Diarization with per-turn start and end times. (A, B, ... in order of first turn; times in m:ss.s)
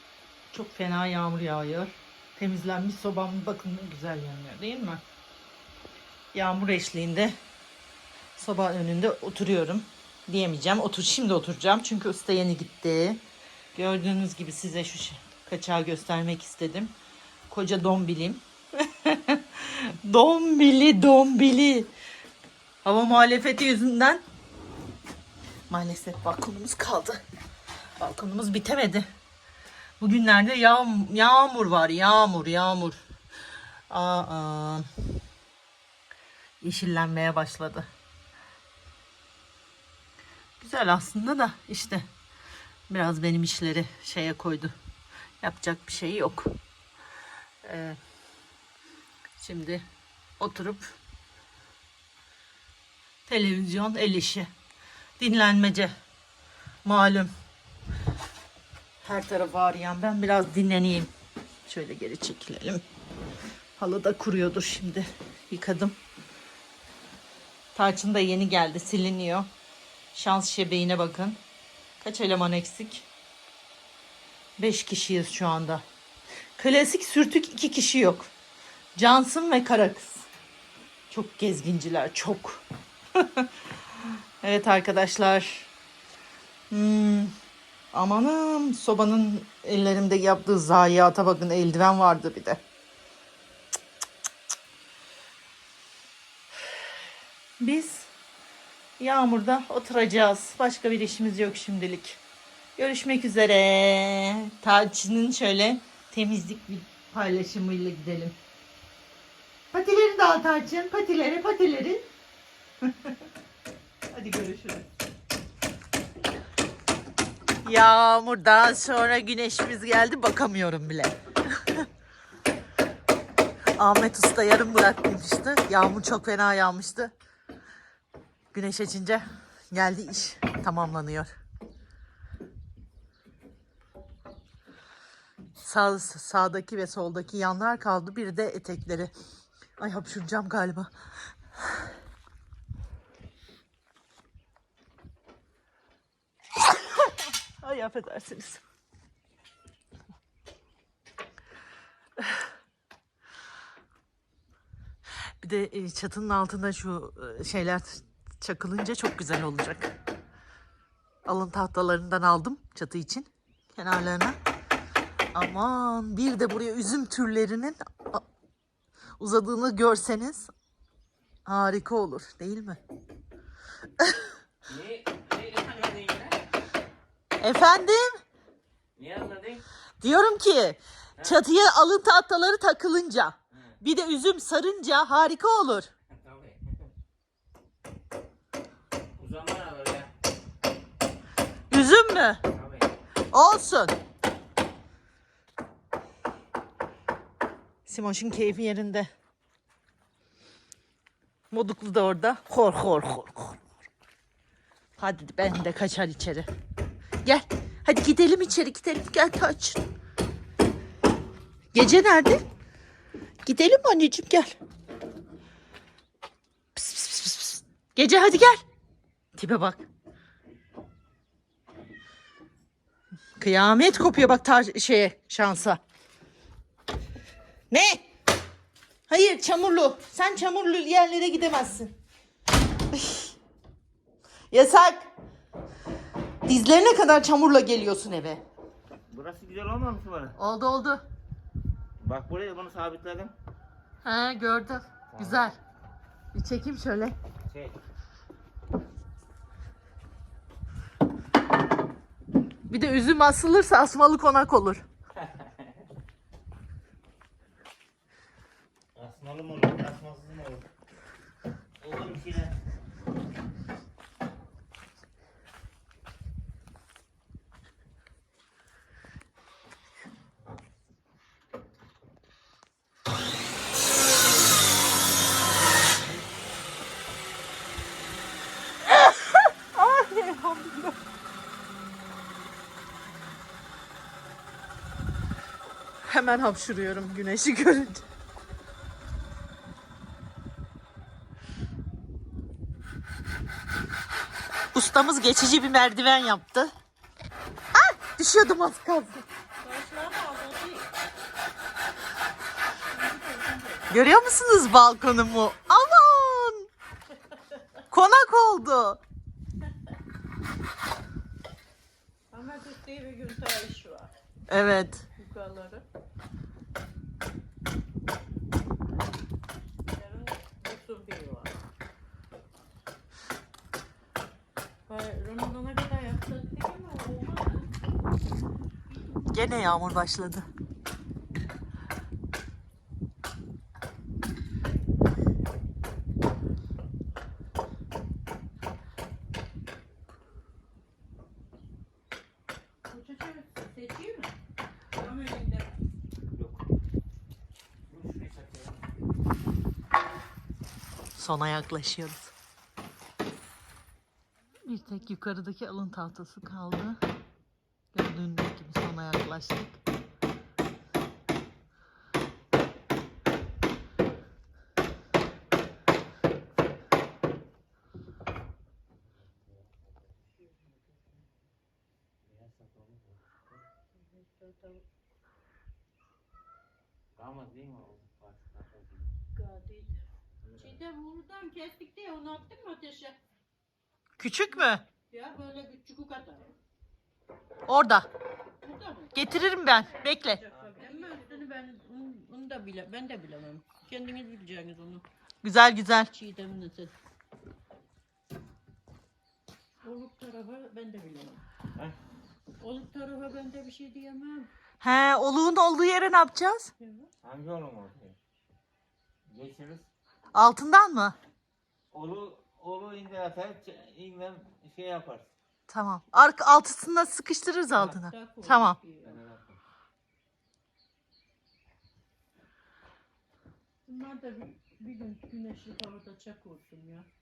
0:00.5-0:05.0 A
0:06.3-0:07.3 A
0:08.4-0:13.2 A
0:13.7-0:16.9 A
0:17.5-0:21.9 A
0:22.8-0:24.2 A
0:25.7-0:27.2 A
0:28.0-0:29.0 A
0:30.0-0:33.0 A
0:33.9-0:34.9 A
0:36.6-0:37.9 A
0:40.6-0:42.0 A
0:42.9-0:44.8 A
0:45.4-0:46.5 A
0:47.6-0:48.0 A
0:49.4-0:49.8 A
0:50.4-0:50.9 A
0:53.3-0:54.5 A
0:55.2-0:55.9 A
0:56.8-0:57.3 A
0:59.0-1:01.1 A
1:01.6-1:02.8 A
1:03.8-1:06.0 A
1:07.7-1:09.5 A
1:10.1-1:11.4 A
1:12.0-1:13.0 A
1:14.6-1:15.8 A
1:16.6-1:18.3 A
1:19.0-1:20.2 A
1:21.1-1:22.6 A
1:23.2-1:23.5 A
1:24.4-1:25.7 A
1:26.7-1:27.3 A
1:27.9-1:32.6 A
1:37.6-1:38.1 A
1:39.0-1:42.2 A
1:42.8-1:48.3 A
1:49.7-1:52.0 A
1:52.8-1:53.2 A
1:54.1-1:54.8 A
1:57.6-2:01.8 A
2:03.8-2:07.1 A
2:08.5-2:11.3 A
2:15.6-2:19.1 A
2:19.8-2:20.9 A
2:27.0-2:28.6 A
2:35.4-2:40.0 A
2:41.2-2:44.4 A
2:45.3-2:48.2 A
2:49.2-2:50.5 A
2:51.4-2:52.8 A
2:54.6-2:56.4 B
2:57.4-2:58.2 A
2:59.0-2:59.6 B
3:00.0-3:05.9 A
3:06.1-3:06.8 B
3:09.2-3:10.1 B
3:11.7-3:12.4 A
3:12.5-3:12.9 B
3:13.3-3:13.9 A
3:17.8-3:19.1 A
3:21.5-3:23.6 A
3:25.0-3:26.5 A
3:27.2-3:29.8 A
3:31.7-3:32.4 A
3:33.4-3:34.6 A
3:36.7-3:38.6 A
3:39.3-3:39.8 A
3:43.4-3:45.8 A
3:47.7-3:48.0 A
3:49.1-3:51.9 A
3:52.9-3:53.3 A
3:54.5-3:55.1 A
3:56.4-3:58.4 A
3:59.1-4:00.4 B
4:00.4-4:01.0 A
4:02.0-4:03.3 B
4:04.0-4:05.6 A
4:05.1-4:05.5 B
4:06.3-4:07.2 A
4:07.5-4:07.8 B
4:12.7-4:14.8 A
4:18.9-4:20.7 B
4:21.8-4:22.6 B
4:38.9-4:41.0 A
4:46.0-4:48.0 A
4:54.7-4:56.7 A
4:57.7-4:59.2 A
4:59.6-5:00.9 C
5:02.9-5:03.9 C
5:03.9-5:06.7 A
5:07.9-5:09.0 A
5:12.3-5:14.1 C
5:14.5-5:15.0 A
5:15.1-5:15.8 C
5:19.9-5:21.6 C
5:24.9-5:27.7 C
5:28.9-5:29.6 C
5:29.3-5:30.5 A
5:42.8-5:44.3 C
5:44.9-5:45.8 C
5:46.3-5:46.6 B
5:47.9-5:48.9 B
5:51.1-5:52.3 A
5:54.6-5:57.0 A
5:57.9-5:59.8 A
6:12.2-6:13.6 B
6:14.0-6:14.8 C
6:17.2-6:19.1 B
6:19.3-6:20.0 C
6:20.4-6:20.8 B
6:20.6-6:23.2 C
6:24.2-6:24.8 A
6:25.1-6:26.5 C
6:27.7-6:28.1 A
6:28.6-6:29.2 C
6:29.1-6:30.4 A
6:30.0-6:35.0 C
6:30.5-6:31.2 B
6:35.4-6:36.1 A
6:36.1-6:36.9 C
6:39.8-6:41.4 C
6:42.6-6:44.5 C
6:44.8-6:46.7 A
6:46.8-6:47.1 C
6:47.2-6:48.2 B
6:49.3-6:49.9 B
6:50.3-6:51.1 A
6:51.9-6:55.3 B
6:55.7-6:58.8 A
6:57.7-6:59.2 C
6:59.0-6:59.6 B
7:03.8-7:07.1 C